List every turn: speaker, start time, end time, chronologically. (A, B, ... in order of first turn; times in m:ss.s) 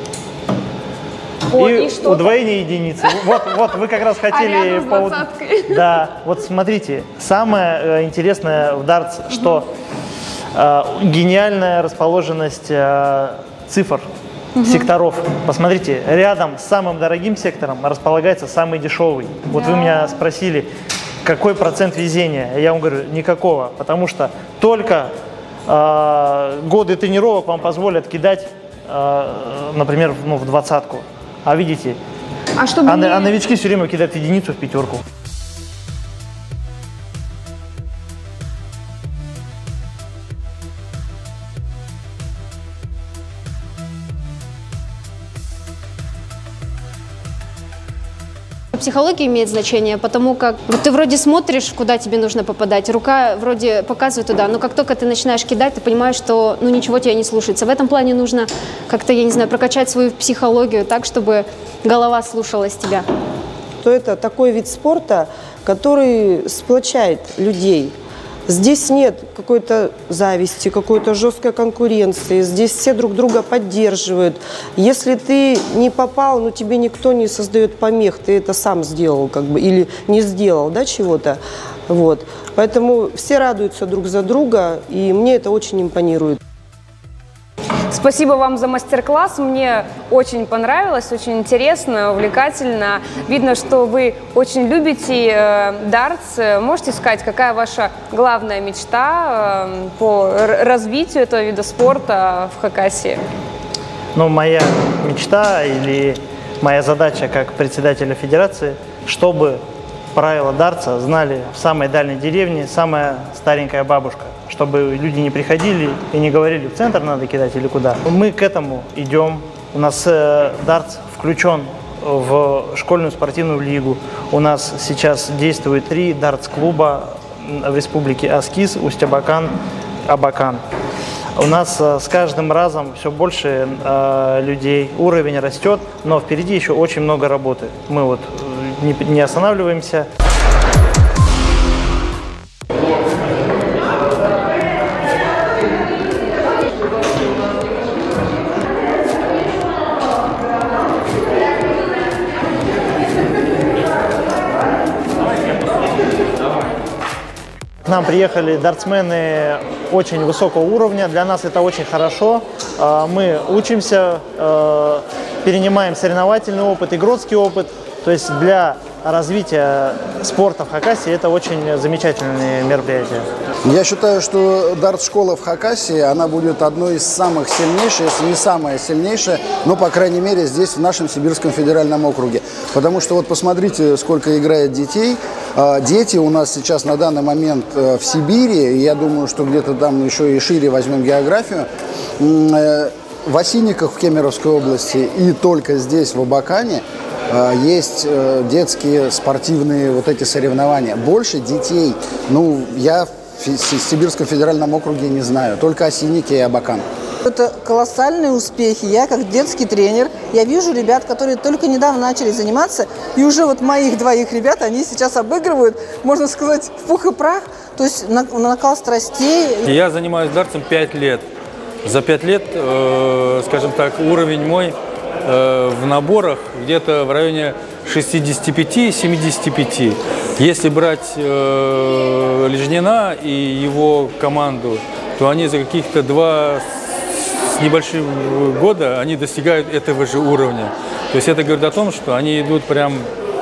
0:01.5-0:02.4 A
0:01.5-0:09.7 B
0:04.2-0:05.9 A
0:10.5-0:14.1 B
0:14.6-0:20.7 B
0:19.6-0:20.1 A
0:21.2-0:25.1 B
0:25.7-0:32.0 B
0:32.6-0:33.3 A
0:32.8-0:35.0 B
0:48.7-1:03.0 C
1:03.8-1:08.0 D
1:08.5-1:26.4 D
1:27.9-1:43.2 A
1:44.1-1:49.6 B
1:50.1-2:09.5 B
2:10.1-2:10.6 B
2:11.4-2:20.1 B
2:37.8-2:53.2 B
2:53.6-3:11.7 E
3:12.2-3:26.8 E
3:27.4-3:35.4 F
3:36.0-3:37.4 F
3:38.0-3:39.5 F
3:39.6-3:41.2 G
3:41.8-4:03.1 G